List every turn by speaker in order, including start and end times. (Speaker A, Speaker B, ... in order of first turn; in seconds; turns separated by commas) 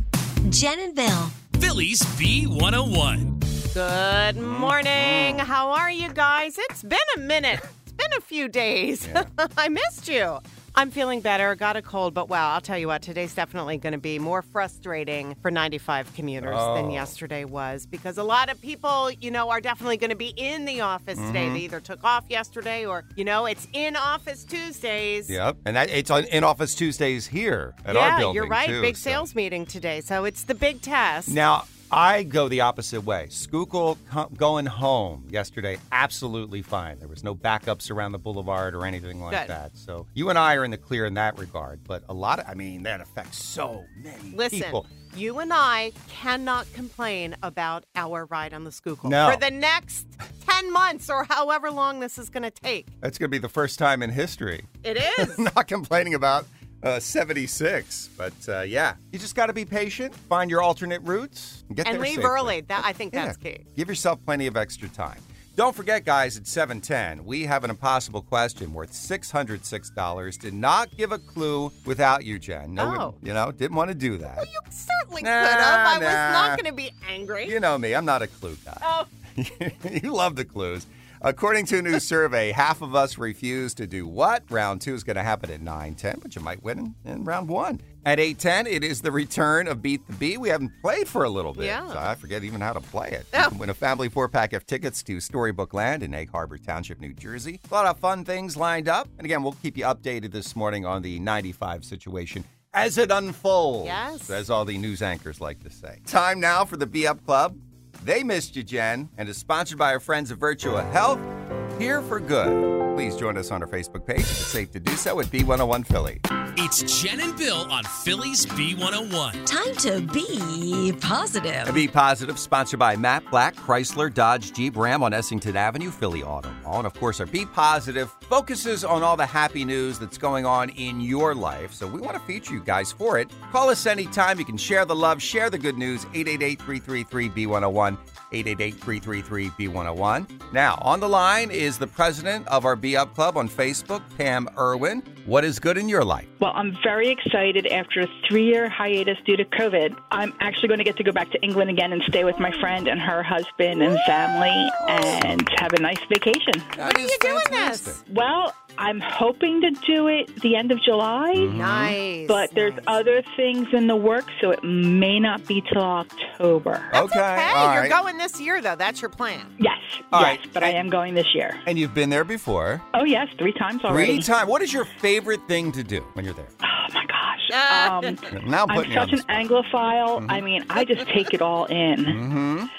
Speaker A: 0.4-1.4, Speaker B: 1.5-3.4, Speaker C: 3.7-25.4, Speaker D: 4.4-5.5, Speaker D: 16.4-17.1, Speaker D: 21.1-21.6, Speaker D: 25.3-29.2, Speaker C: 27.9-31.4, Speaker D: 31.3-44.9, Speaker C: 44.3-52.9, Speaker D: 49.0-49.4, Speaker D: 53.0-62.6, Speaker C: 54.8-55.5, Speaker C: 61.8-63.6, Speaker D: 63.1-74.5, Speaker C: 72.8-73.2, Speaker C: 74.4-77.5, Speaker D: 75.2-76.6, Speaker D: 77.4-78.8, Speaker D: 79.3-111.2, Speaker C: 91.5-92.0, Speaker C: 103.8-104.4, Speaker D: 111.8-116.2, Speaker B: 116.5-119.4, Speaker A: 119.4-121.8, Speaker D: 121.6-146.3, Speaker E: 146.4-156.7, Speaker D: 156.8-158.0, Speaker C: 156.8-158.0, Speaker E: 158.1-161.6, Speaker D: 161.3-162.0, Speaker C: 161.5-162.9, Speaker E: 162.2-166.9, Speaker D: 166.9-167.9, Speaker C: 166.9-169.5, Speaker E: 169.6-171.6, Speaker D: 170.1-170.8, Speaker D: 171.6-172.8, Speaker E: 172.9-174.3, Speaker D: 173.9-176.5, Speaker E: 176.6-182.2, Speaker C: 177.5-178.2, Speaker D: 178.3-179.2, Speaker D: 182.1-182.7